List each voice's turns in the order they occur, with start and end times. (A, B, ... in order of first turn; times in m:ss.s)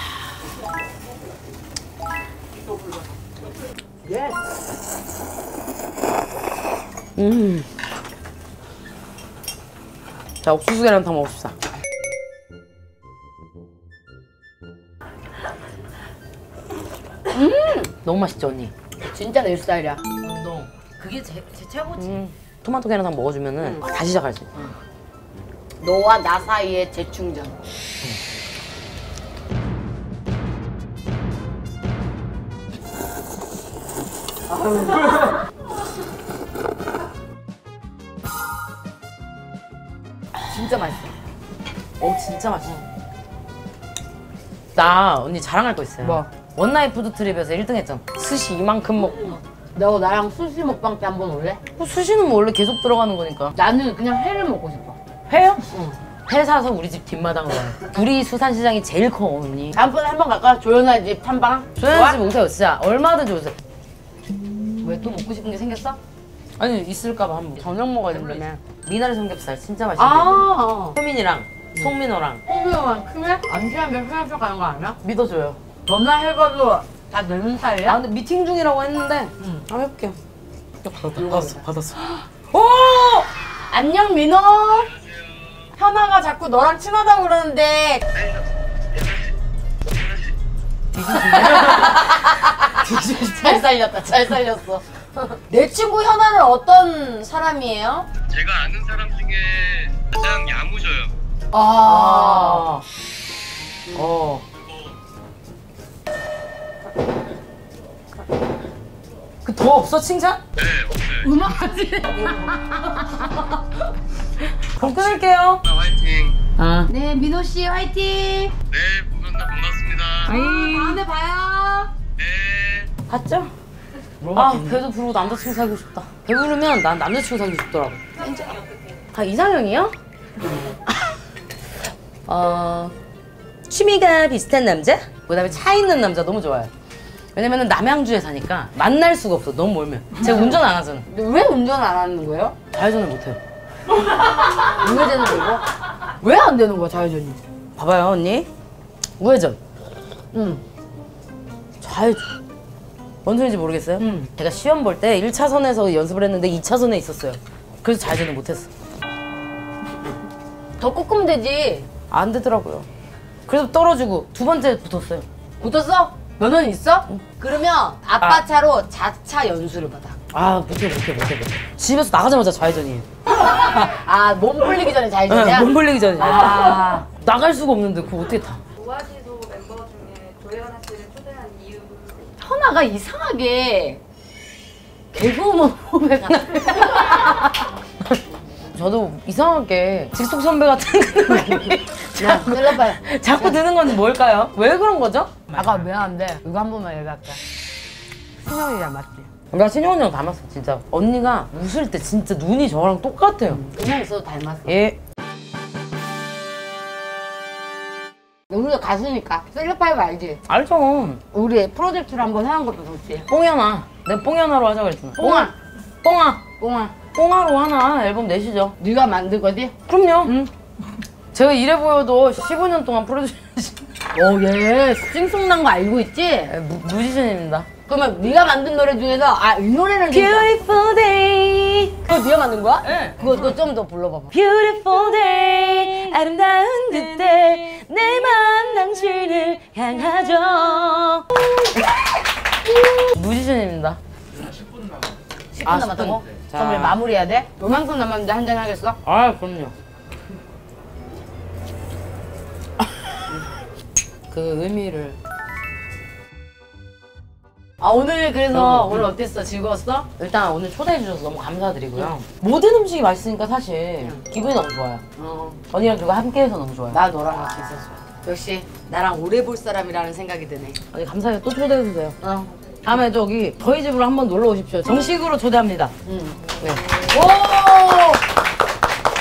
0:04.1-0:04.4 A
0:07.2-0:07.7 B
0:10.4-0:11.5 B
0:17.3-0:17.9 A
0:18.0-0:18.7 B
0:19.0-0:20.0 A
0:20.2-0:24.7 B
0:25.8-0:27.6 A
0:34.5-0:35.3 A
0:40.5-0:41.2 A
0:42.0-0:42.8 B
0:44.8-0:49.4 B
0:46.0-0:46.3 A
0:49.8-0:51.6 A
0:51.8-0:53.6 B
0:53.6-0:55.0 A
0:55.3-0:55.7 B
0:55.7-0:56.0 A
0:56.3-0:59.8 B
0:59.7-1:02.2 A
1:01.8-1:03.5 B
1:04.8-1:06.0 A
1:06.6-1:12.4 B
1:07.6-1:08.6 A
1:10.0-1:11.0 A
1:12.5-1:15.0 A
1:15.0-1:15.6 B
1:15.9-1:18.0 A
1:17.8-1:20.2 B
1:19.4-1:19.7 A
1:20.8-1:23.3 B
1:21.2-1:21.7 A
1:23.7-1:24.9 A
1:25.1-1:25.4 C
1:25.7-1:28.0 A
1:29.0-1:29.2 C
1:30.9-1:32.1 B
1:31.1-1:38.1 A
1:32.8-1:33.7 B
1:38.3-1:41.1 C
1:41.5-1:42.7 A
1:41.8-1:42.8 B
1:43.9-1:44.2 A
1:43.9-1:44.4 B
1:49.4-1:50.4 B
1:50.6-1:51.2 C
1:51.2-1:53.8 A
1:54.6-1:55.6 B
1:55.7-1:56.4 C
1:56.6-1:56.9 B
1:56.9-1:58.6 A
1:58.7-2:00.3 C
2:00.3-2:01.0 B
2:00.3-2:01.9 A
2:02.2-2:02.9 C
2:03.1-2:03.5 B
2:04.2-2:04.8 A
2:04.3-2:08.1 B
2:08.2-2:08.6 A
2:09.1-2:10.0 B
2:12.3-2:12.9 B
2:13.7-2:16.7 B
2:17.4-2:21.1 B
2:20.2-2:22.6 A
2:22.7-2:23.4 B
2:23.9-2:25.7 A
2:26.2-2:27.4 A
2:27.8-2:28.5 B
2:29.2-2:29.6 B
2:30.3-2:30.6 A
2:31.8-2:32.4 B
2:33.2-2:38.7 B
2:34.0-2:34.3 A
2:40.8-2:41.9 A
2:42.1-2:42.9 B
2:43.5-2:45.2 B
2:45.6-2:50.2 A
2:50.3-2:53.1 B
2:53.4-2:57.1 A
2:55.3-2:58.6 B
2:58.8-3:02.2 D
3:02.4-3:04.0 A
3:05.1-3:07.7 A
3:06.4-3:06.8 B
3:08.7-3:15.6 B
3:11.6-3:13.6 A
3:15.5-3:17.4 A
3:18.4-3:19.3 A
3:19.5-3:23.6 B
3:23.5-3:24.7 A
3:24.7-3:25.0 B
3:28.5-3:30.4 A
3:30.5-3:31.2 B
3:31.3-3:33.3 A
3:33.3-3:35.5 B
3:35.2-3:35.5 A
3:36.0-3:36.4 B
3:36.6-3:37.0 A
3:37.1-3:38.8 B
3:38.8-3:40.5 A
3:39.9-3:40.5 B
3:41.3-3:43.9 B
3:44.2-3:46.5 A
3:46.5-3:47.7 B
3:47.9-3:50.5 A
3:50.1-3:52.2 B
3:52.1-3:54.4 A
3:52.8-3:53.6 B
3:54.3-4:01.8 B
4:03.0-4:04.0 B
4:05.5-4:09.0 A
4:05.6-4:07.0 B
4:09.1-4:09.7 B
4:14.3-4:15.2 B
4:17.8-4:20.1 A
4:18.5-4:19.1 B
4:20.2-4:25.0 B
4:25.2-4:25.6 A
4:25.7-4:27.0 B
4:26.9-4:30.8 A
4:30.9-4:32.2 B
4:32.2-4:32.5 A
4:32.8-4:35.9 B
4:36.0-4:36.4 A
4:36.6-4:36.9 B
4:37.0-4:38.2 A